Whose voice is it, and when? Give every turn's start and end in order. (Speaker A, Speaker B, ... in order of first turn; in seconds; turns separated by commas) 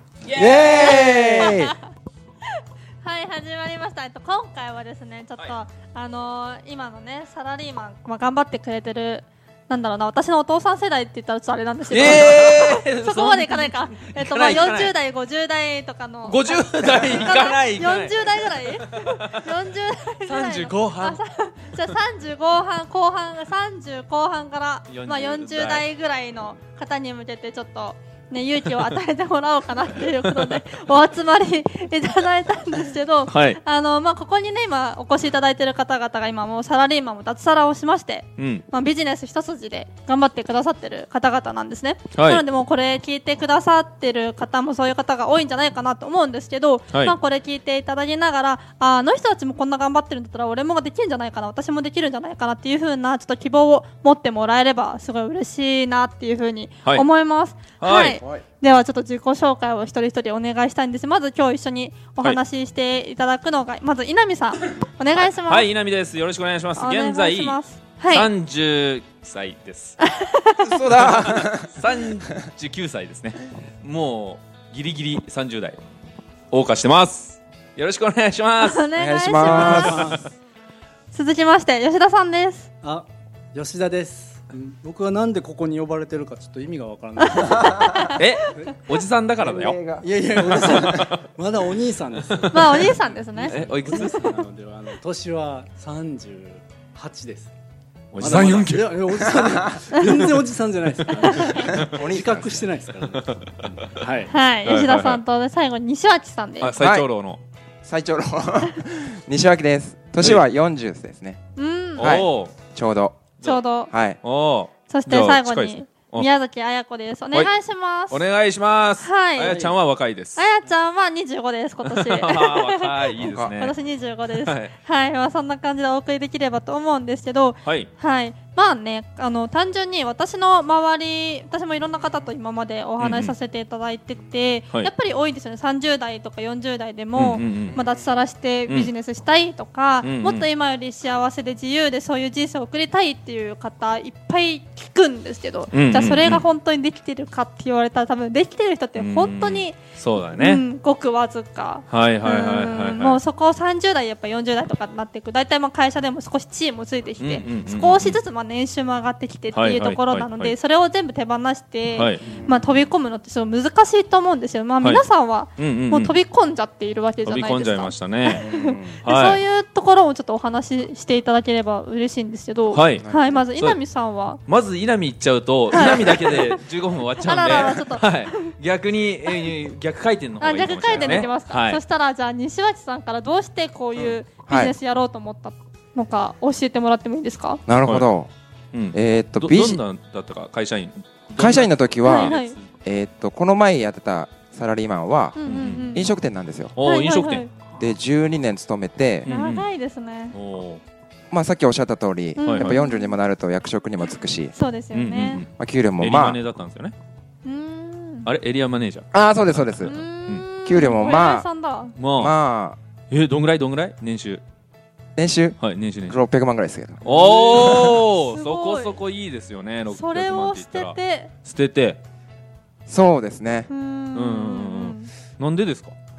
Speaker A: 0.3-1.5, Speaker B: 0.3-1.7, Speaker C: 0.7-1.7, Speaker C: 3.0-65.7, Speaker A: 11.9-14.9, Speaker A: 16.3-19.4, Speaker A: 20.3-21.2, Speaker A: 24.9-25.9, Speaker A: 30.2-30.6, Speaker A: 33.3-33.6, Speaker A: 38.4-38.6, Speaker A: 42.1-42.4, Speaker A: 57.8-58.2, Speaker A: 65.5-70.0, Speaker C: 66.8-68.3, Speaker C: 70.0-70.7, Speaker B: 70.6-71.8, Speaker A: 70.9-75.8, Speaker A: 76.5-78.9, Speaker C: 78.6-80.1, Speaker B: 79.0-80.2, Speaker D: 79.4-80.3, Speaker A: 79.4-80.1, Speaker C: 81.1-82.7, Speaker D: 82.8-87.8, Speaker C: 87.2-88.2, Speaker A: 88.2-89.8, Speaker D: 88.5-88.8, Speaker B: 89.4-91.1, Speaker D: 90.0-97.5, Speaker A: 90.4-91.2, Speaker A: 92.2-94.3, Speaker C: 92.5-94.4, Speaker A: 98.1-99.5, Speaker D: 98.2-104.3, Speaker C: 101.1-101.6, Speaker B: 101.7-102.7, Speaker A: 103.1-104.0, Speaker C: 104.3-106.7, Speaker A: 104.6-105.2, Speaker A: 106.6-107.4, Speaker B: 106.8-107.1, Speaker B: 107.8-111.4, Speaker C: 111.6-112.2, Speaker A: 112.0-112.5, Speaker B: 112.0-113.2, Speaker C: 113.4-113.9, Speaker B: 113.9-114.2, Speaker A: 114.2-116.3, Speaker C: 114.9-118.2, Speaker A: 118.1-120.5, Speaker C: 119.0-119.7, Speaker C: 120.3-149.8, Speaker A: 121.9-123.8, Speaker B: 123.2-123.5, Speaker A: 124.3-124.7, Speaker A: 127.6-127.9, Speaker A: 133.0-133.3, Speaker A: 137.2-137.8, Speaker B: 137.8-138.1, Speaker A: 140.0-140.5, Speaker A: 145.7-146.4, Speaker A: 149.0-150.6, Speaker C: 150.4-174.4, Speaker A: 151.9-153.2, Speaker A: 157.2-158.2, Speaker A: 159.5-160.6, Speaker A: 161.9-162.3, Speaker B: 162.2-162.6, Speaker A: 165.6-166.2, Speaker A: 167.2-168.4, Speaker B: 168.3-169.0, Speaker A: 169.1-169.4, Speaker A: 172.7-173.1, Speaker B: 173.0-173.4, Speaker A: 174.5-181.8, Speaker C: 175.7-176.6, Speaker C: 177.2-178.5, Speaker C: 180.4-187.6, Speaker B: 180.9-181.3, Speaker B: 184.0-184.8, Speaker B: 187.7-188.3, Speaker A: 188.7-192.7, Speaker B: 188.9-189.8, Speaker B: 191.4-195.4, Speaker C: 192.0-192.6, Speaker C: 195.3-196.1, Speaker A: 195.4-196.1, Speaker B: 195.9-196.8, Speaker A: 196.8-197.5, Speaker C: 196.8-197.5, Speaker B: 197.8-199.3, Speaker A: 199.2-199.7, Speaker C: 199.2-200.3, Speaker A: 200.3-200.8, Speaker B: 201.3-204.5, Speaker C: 202.4-203.2, Speaker A: 202.4-202.8, Speaker C: 204.5-205.4, Speaker A: 204.9-206.9, Speaker B: 205.6-206.4, Speaker C: 207.4-208.3, Speaker A: 208.2-210.4, Speaker B: 209.1-209.9, Speaker C: 209.8-211.9, Speaker B: 210.7-211.5, Speaker A: 212.0-212.3, Speaker B: 212.2-212.8, Speaker A: 213.1-214.4, Speaker B: 215.2-218.0, Speaker A: 215.6-216.2, Speaker A: 217.0-222.0, Speaker C: 217.1-219.0, Speaker C: 219.9-221.3, Speaker B: 222.9-223.7, Speaker C: 223.7-225.1, Speaker A: 224.1-225.9